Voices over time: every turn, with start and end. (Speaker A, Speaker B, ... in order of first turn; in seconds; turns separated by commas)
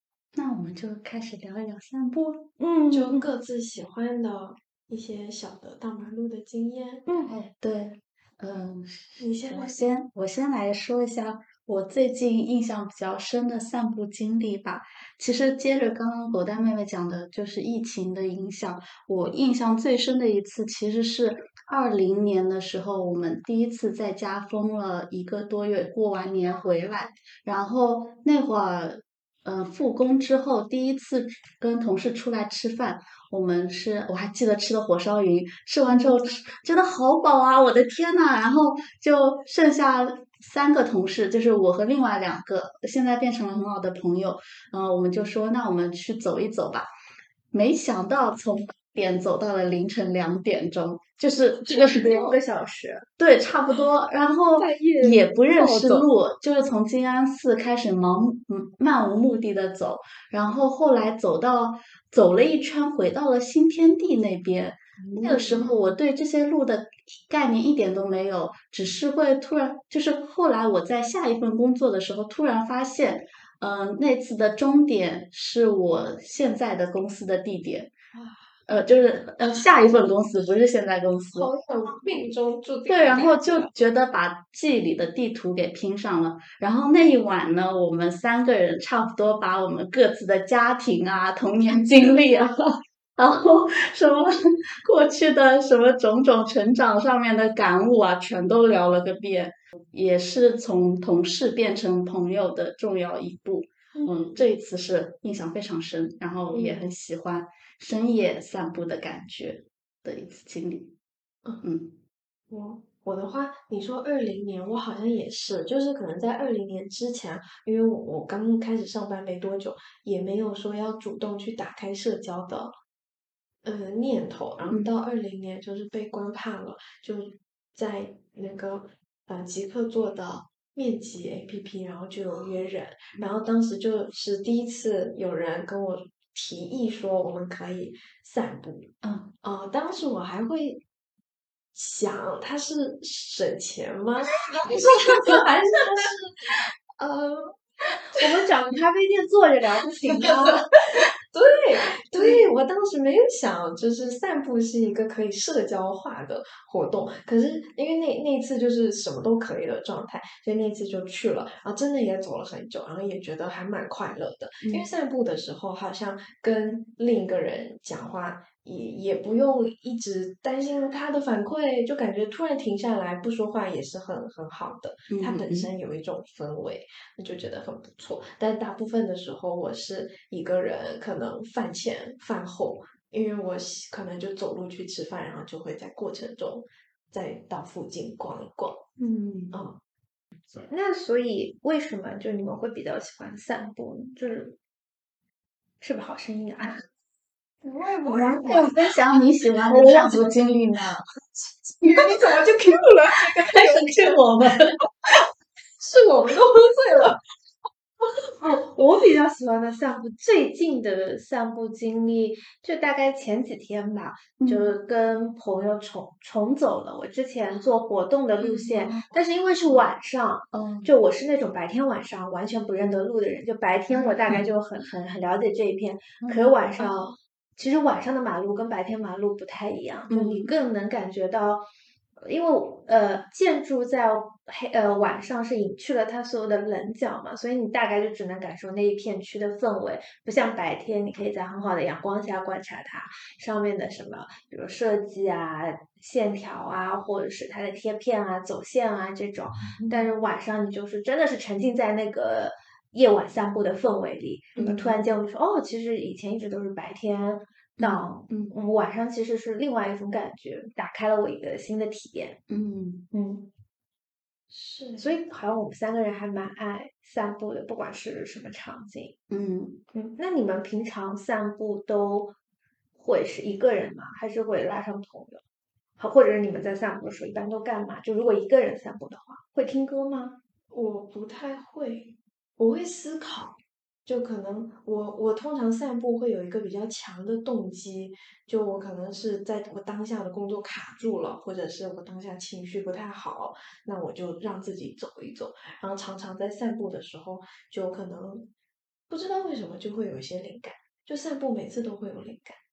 Speaker A: 0.3-2.5, Speaker B: 2.6-3.2, Speaker C: 2.9-7.1, Speaker B: 7.1-7.4, Speaker A: 7.2-46.9, Speaker C: 9.2-9.8, Speaker A: 47.5-52.4, Speaker B: 51.7-53.1, Speaker A: 53.2-77.9, Speaker C: 54.6-56.1, Speaker B: 54.8-55.1, Speaker C: 65.1-65.7, Speaker B: 65.3-65.7, Speaker C: 78.1-78.5, Speaker A: 78.7-81.5, Speaker C: 81.3-83.7, Speaker A: 82.9-110.9, Speaker C: 106.5-106.9, Speaker A: 111.6-112.0, Speaker C: 112.5-122.8, Speaker C: 123.6-138.9, Speaker A: 139.0-139.3, Speaker C: 139.4-140.8, Speaker C: 141.7-147.5, Speaker B: 148.1-150.7, Speaker C: 150.2-188.9, Speaker A: 164.6-164.9, Speaker A: 175.1-175.7, Speaker A: 189.0-189.5, Speaker C: 189.5-189.8, Speaker B: 190.5-194.6, Speaker B: 195.8-196.8, Speaker C: 197.6-198.9, Speaker A: 198.1-201.0, Speaker C: 199.7-200.3, Speaker C: 201.7-204.2, Speaker A: 201.8-202.2, Speaker A: 203.2-204.8, Speaker C: 205.8-207.2, Speaker B: 208.4-231.7, Speaker A: 214.4-214.7, Speaker A: 218.4-219.1, Speaker A: 220.5-220.9, Speaker A: 224.0-224.4, Speaker A: 226.2-226.9, Speaker A: 230.1-230.5, Speaker B: 232.2-262.4, Speaker A: 249.7-250.1, Speaker A: 254.6-255.0, Speaker A: 257.8-258.6, Speaker A: 262.5-263.1, Speaker B: 263.1-263.5, Speaker C: 264.5-265.1, Speaker B: 265.0-269.1, Speaker A: 269.3-269.8, Speaker B: 269.9-272.4, Speaker B: 273.0-275.4, Speaker B: 276.0-280.4, Speaker C: 280.7-298.5, Speaker C: 299.1-302.6